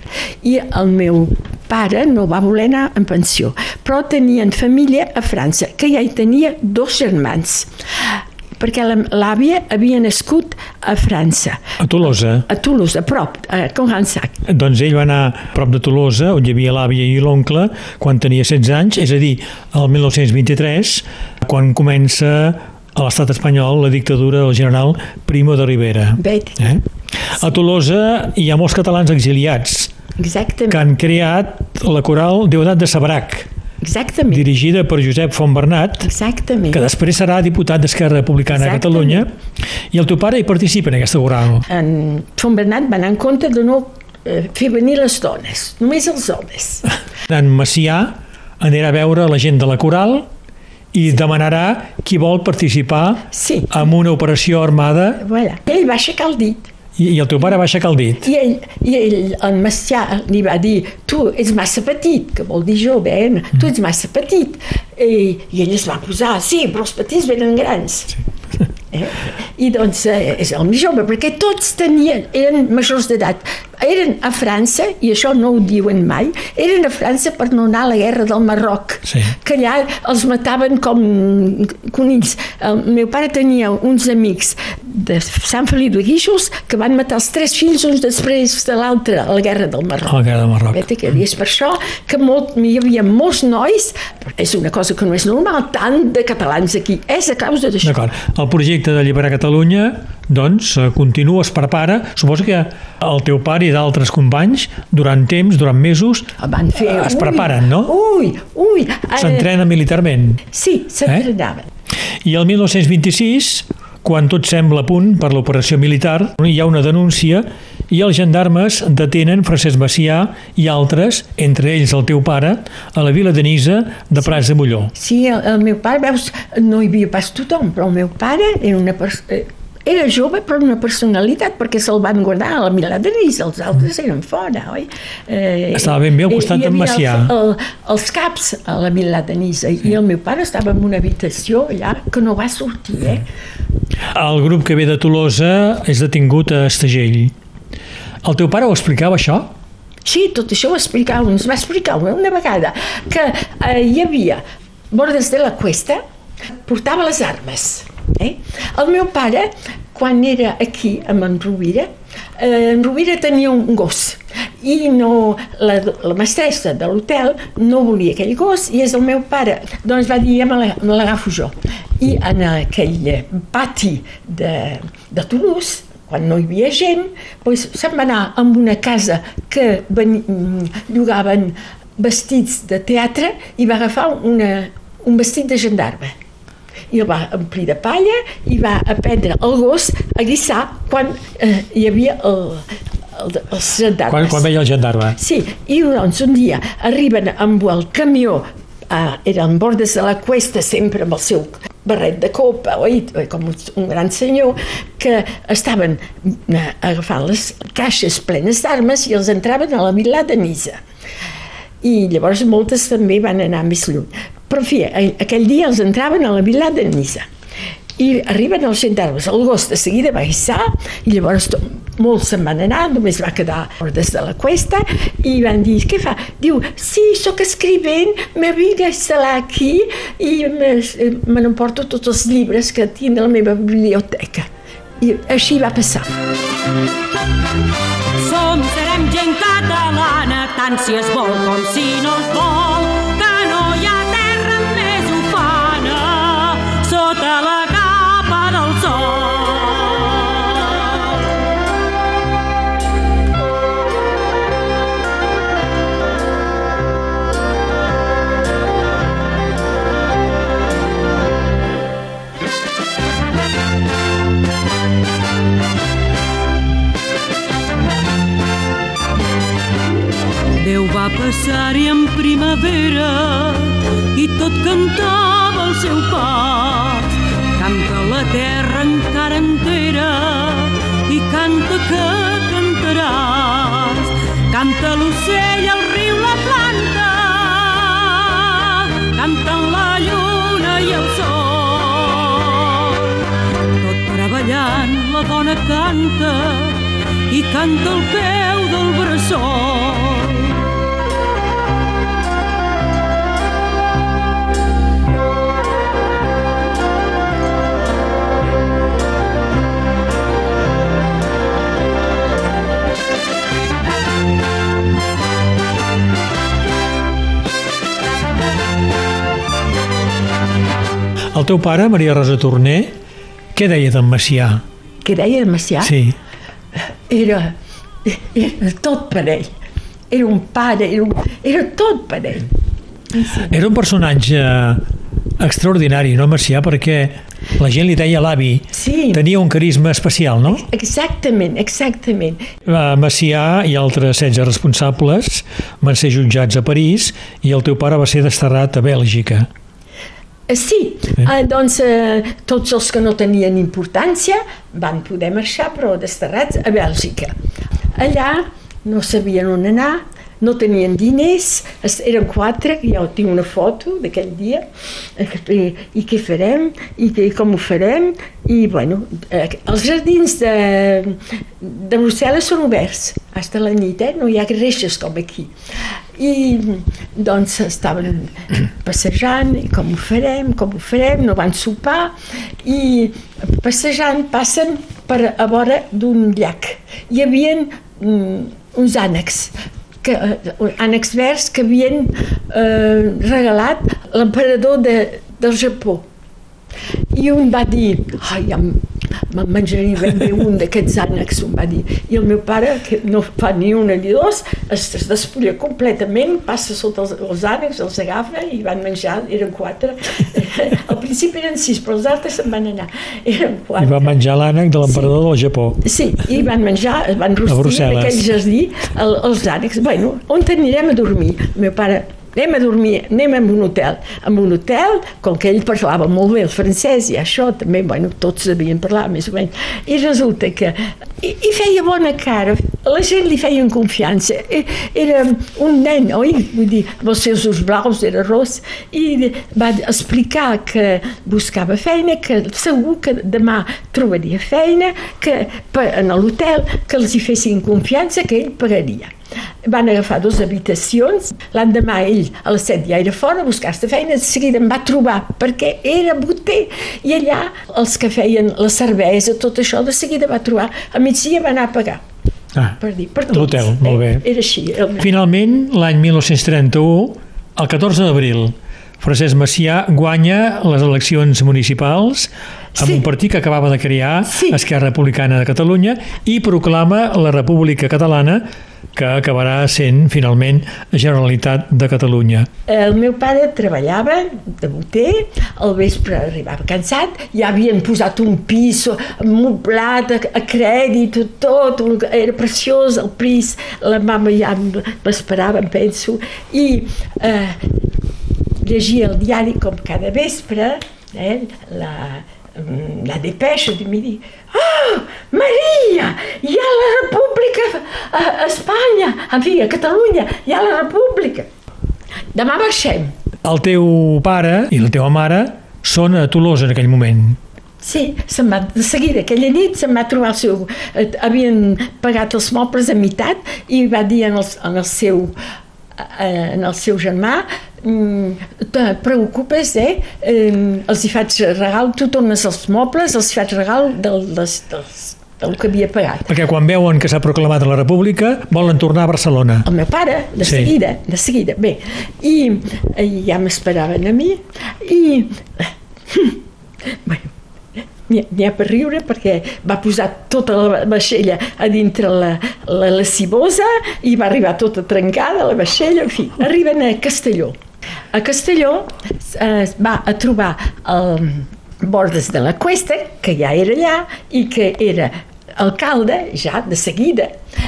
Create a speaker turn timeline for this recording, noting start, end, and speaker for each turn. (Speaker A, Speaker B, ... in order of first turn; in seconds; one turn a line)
Speaker A: 0.4-11.6
Speaker B: 11.8-12.5
Speaker A: 12.4-14.4
Speaker B: 14.5-29.9
Speaker A: 26.2-26.8
Speaker A: 30.2-30.8
Speaker B: 30.7-33.5
Speaker A: 33.8-34.4
Speaker B: 34.3-36.1
Speaker A: 36.0-36.8
Speaker B: 36.7-39.3
Speaker A: 38.5-39.3
Speaker B: 39.9-41.6
Speaker A: 41.7-46.9
Speaker B: 47.3-50.3
Speaker B: 50.9-55.2
Speaker A: 53.3-53.8
Speaker A: 55.2-56.7
Speaker B: 57.0-58.3
Speaker A: 58.2-68.2
Speaker A: 68.9-98.0
Speaker B: 79.1-79.3
Speaker B: 90.1-90.8
Speaker B: 97.8-107.9
Speaker A: 106.4-109.5
Speaker B: 109.2-110.4
Speaker A: 110.5-111.7
Speaker B: 112.2-124.9
Speaker A: 124.9-143.3
Speaker B: 135.7-137.3
Speaker B: 144.1-147.3
Speaker B: 148.2-149.5
Speaker A: 150.0-156.0
Speaker A: 156.6-186.1
Speaker A: 186.9-194.5
Speaker B: 194.1-195.2
Speaker A: 195.2-210.8
Speaker A: 211.8-217.3
Speaker A: 218.0-234.5
Speaker A: 235.0-236.1
Speaker C: 238.2-251.0
Speaker C: 270.6-293.2
Speaker C: 293.8-300.6
Speaker B: 321.3-322.9
Speaker B: 323.5-324.6
Speaker A: 325.0-325.9
Speaker B: 325.8-326.1
Speaker A: 327.1-329.5
Speaker A: 330.1-332.5
Speaker A: 333.1-333.6
Speaker B: 333.5-334.8
Speaker B: 335.4-340.6
Speaker A: 338.7-339.2
Speaker A: 340.5-342.4
Speaker B: 342.6-349.5
Speaker A: 350.5-357.3
Speaker A: 357.9-375.5
Speaker A: 376.2-396.1
Speaker A: 397.1-414.1
Speaker B: 413.8-415.8
Speaker A: 414.9-415.1
Speaker A: 415.8-449.1
Speaker B: 417.4-418.3
Speaker A: 449.6-462.0
Speaker A: 462.8-465.1
Speaker B: 463.3-464.2
Speaker B: 465.0-482.5
Speaker A: 472.8-473.0
Speaker A: 474.3-474.6
Speaker A: 482.7-497.6
Speaker A: 498.6-511.5
Speaker A: 512.3-513.1
Speaker B: 513.4-517.4
Speaker A: 517.8-525.3
Speaker A: 526.0-536.3
Speaker B: 536.3-539.7
Speaker A: 539.6-546.4
Speaker B: 540.4-540.7
Speaker A: 546.9-557.5
Speaker A: 558.1-567.3